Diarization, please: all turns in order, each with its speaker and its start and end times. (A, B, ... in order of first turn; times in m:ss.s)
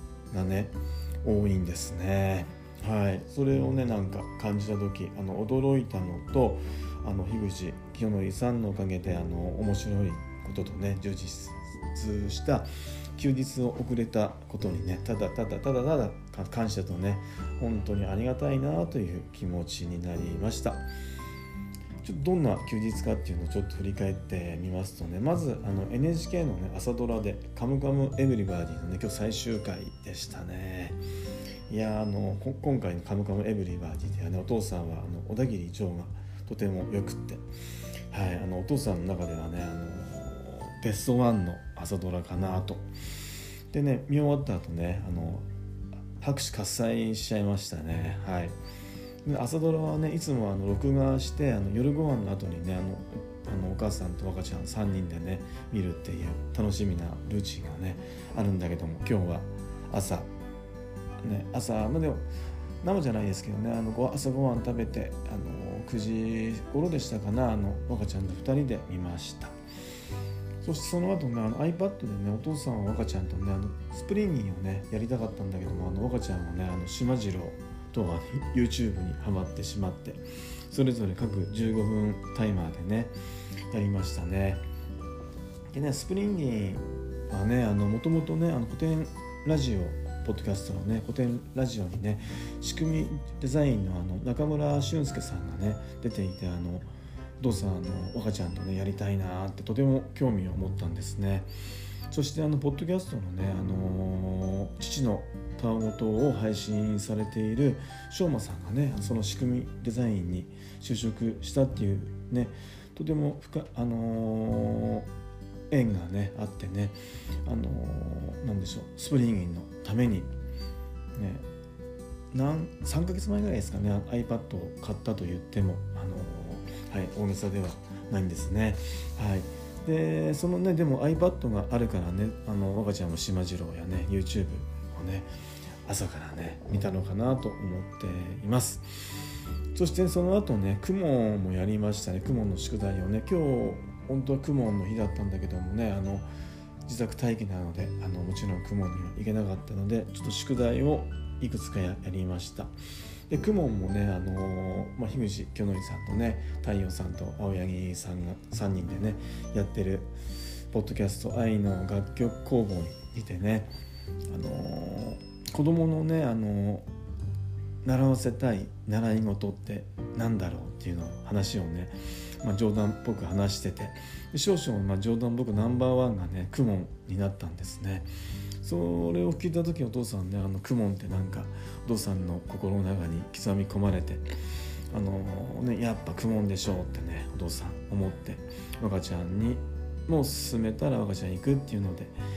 0:00.3-0:20.8 A
0:22.0-0:31.0 A
0:31.7-0:37.4 A
0:38.1-0:42.8 A
0:43.7-0:45.5 A
0:46.2-0:48.6 A
0:49.2-1:00.3 A
1:01.2-1:02.2 A
1:02.8-1:09.6 A
1:10.6-1:23.1 A
1:23.7-1:24.6 A
1:25.7-1:36.9 A
1:37.4-1:41.5 A
1:42.1-1:55.1 A
1:55.7-2:00.3 A
2:01.2-2:01.4 A
2:02.3-2:15.3 A
2:15.8-2:19.1 A
2:19.7-2:26.3 A
2:26.8-2:32.7 A
2:33.3-2:40.1 A
2:40.7-2:43.7 A
2:44.3-2:46.9 A
2:47.8-2:58.1 A
2:58.6-3:04.2 A
3:04.9-3:12.1 A